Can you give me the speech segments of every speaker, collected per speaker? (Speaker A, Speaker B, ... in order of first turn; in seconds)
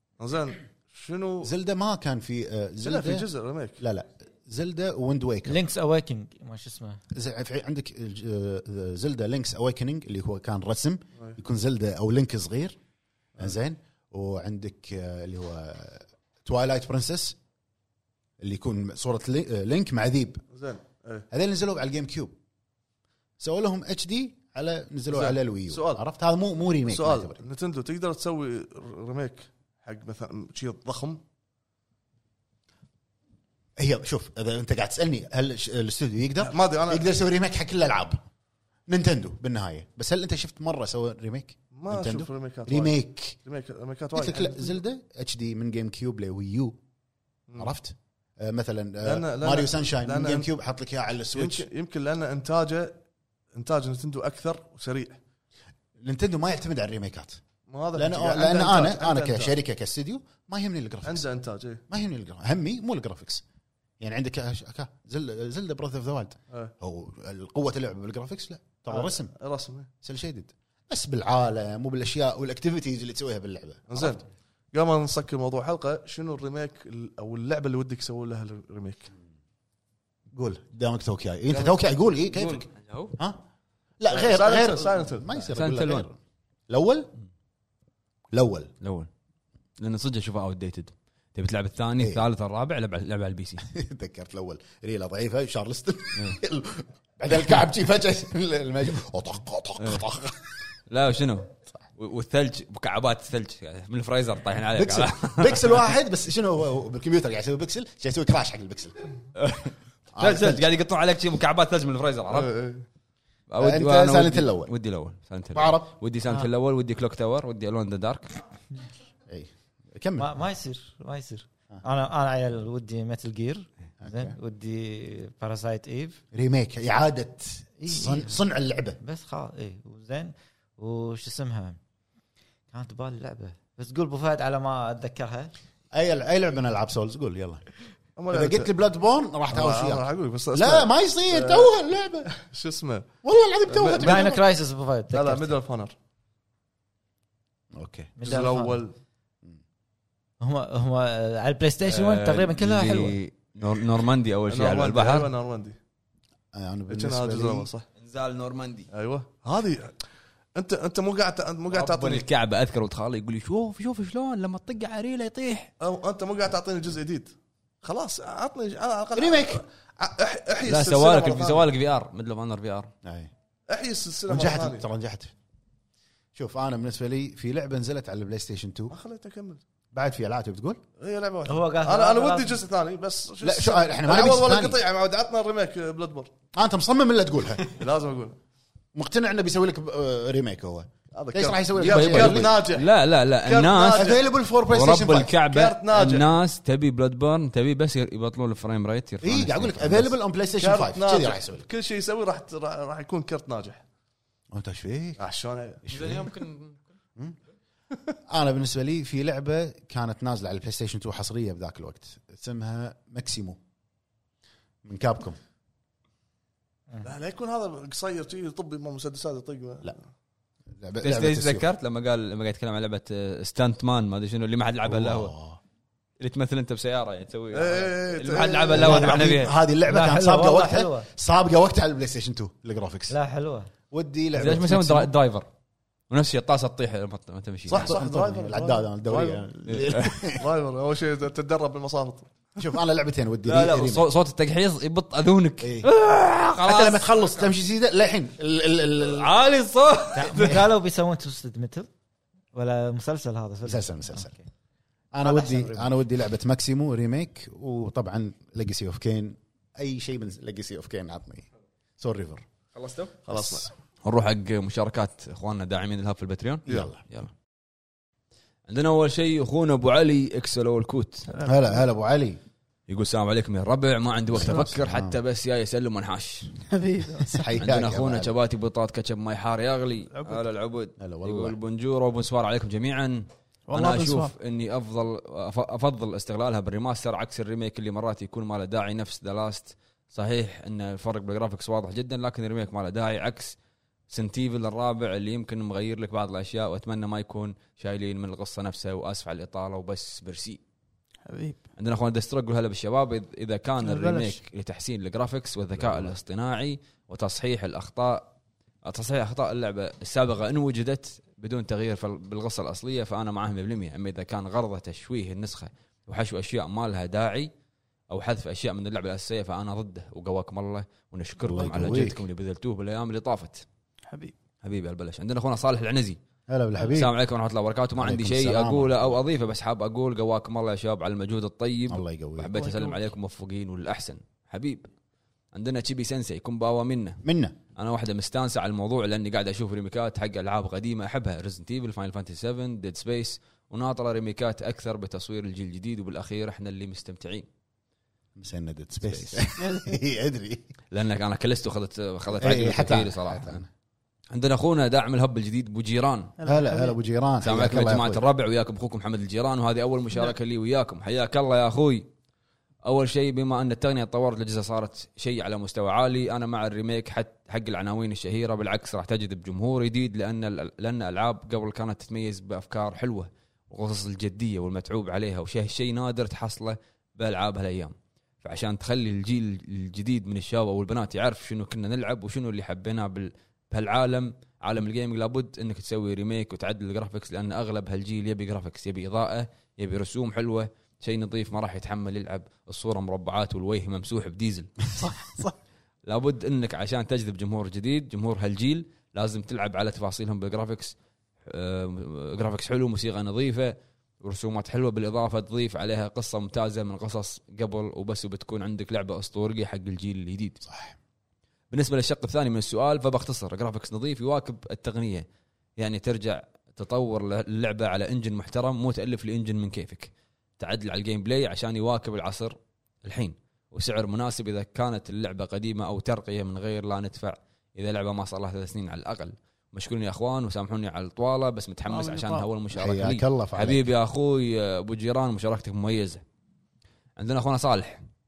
Speaker A: 0.2-1.5, 2.8-3.8, 20.5-21.3, 25.1-26.0, 26.9-31.2, 36.4-37.1, 41.7-44.8, 49.0-50.5, 51.4-53.0, 53.5-55.2, 57.7-59.5, 61.0-61.8, 68.9-69.9, 73.9-79.1, 84.1-85.4, 112.3-112.9, 138.2-138.7, 139.5-141.7, 142.3-143.1, 143.7-144.4, 145.1-145.9, 148.2-148.9, 154.5-155.8, 156.9-157.9, 158.9-159.9, 160.6-162.3, 165.8-171.7, 173.7-174.8, 178.9-179.6, 181.0-186.3, 187.7-188.4, 191.1-192.9, 193.4-194.2, 195.4-196.3, 200.6-203.8, 205.2-205.8, 217.0-220.0, 227.5-229.0, 237.7-239.4, 240.4-242.3, 263.2-263.7
Speaker B: 1.4-3.3, 3.8-5.6, 7.1-12.8, 13.4-17.4, 18.4-20.4, 21.3-22.3, 23.4-27.4, 33.8-38.2, 38.9-43.4, 44.1-46.8, 47.6-51.7, 56.0-57.4, 58.0-61.3, 61.9-63.4, 64.0-69.3, 70.0-74.2, 80.3-83.4, 84.0-86.2, 86.7-87.1, 88.3-88.7, 93.6-100.4, 104.7-109.0, 110.2-110.7, 113.6-114.7, 115.5-115.9, 119.3-120.3, 124.0-124.4, 126.3-129.0, 135.9-137.6, 138.3-142.3, 143.2-144.4, 147.8-148.1, 156.5-157.7, 169.2-169.6, 173.0-173.3, 174.3-175.3, 176.3-178.9, 179.9-180.8, 183.4-184.8, 186.5-187.7, 188.9-192.6, 193.9-195.3, 199.2-201.7, 204.5-205.2, 205.9-206.3, 208.3-213.6, 214.8-215.4, 220.8-221.7, 224.8-225.6, 228.7-233.2, 233.9-235.1, 237.7-240.5, 242.6-244.1, 245.6-245.9, 246.6-249.3, 250.2-250.7, 253.7-254.3, 255.1-261.5, 262.0-262.4, 263.3-263.7, 266.7-267.0, 271.4-272.4, 274.3-275.2, 277.3-278.3, 281.0-281.6, 305.8-306.1, 321.4-322.2, 326.5-327.1, 328.0-329.1, 331.9-332.5, 337.2-337.6, 348.4-350.7, 352.3-353.7, 356.4-358.2, 410.6-411.0, 432.7-433.9
Speaker C: 5.5-7.0, 120.2-126.2, 127.8-128.4, 129.0-131.8, 132.7-135.5, 144.0-145.6, 148.2-148.8, 150.4-153.2, 181.4-182.6, 228.8-229.3, 229.9-231.1, 233.1-233.7, 250.2-251.9, 252.5-254.5, 255.2-255.9
Speaker D: 82.3-83.2, 85.5-86.1, 88.8-89.1, 89.8-93.6, 99.8-100.0, 100.9-105.9, 109.4-112.5, 113.5-118.4, 151.8-155.3, 158.0-158.9, 161.7-165.7, 170.7-172.9, 191.9-194.2, 194.7-200.1, 205.9-206.8, 221.0-225.3, 226.2-229.5, 234.3-235.5, 236.1-238.0, 239.7-240.2, 243.5-247.1, 249.1-250.6, 262.8-263.2, 264.1-267.3, 268.7-271.3, 272.9-276.6, 277.6-293.6, 294.1-300.6, 301.8-308.3, 308.9-317.5, 318.1-323.6, 324.6-326.2, 326.9-334.9, 335.5-337.2, 337.8-347.5, 349.0-349.4, 350.9-353.6, 354.3-356.3, 357.4-362.1, 362.9-395.1, 396.1-400.9, 401.5-410.6, 411.7-415.3, 415.8-436.2, 437.2-438.0
Speaker E: 271.3-271.8, 276.7-277.5, 280.1-280.4, 283.7-284.3, 301.3-301.6, 303.8-304.4, 324.1-324.4, 332.6-333.0, 349.6-349.9, 356.4-357.0, 395.0-395.6, 431.9-432.5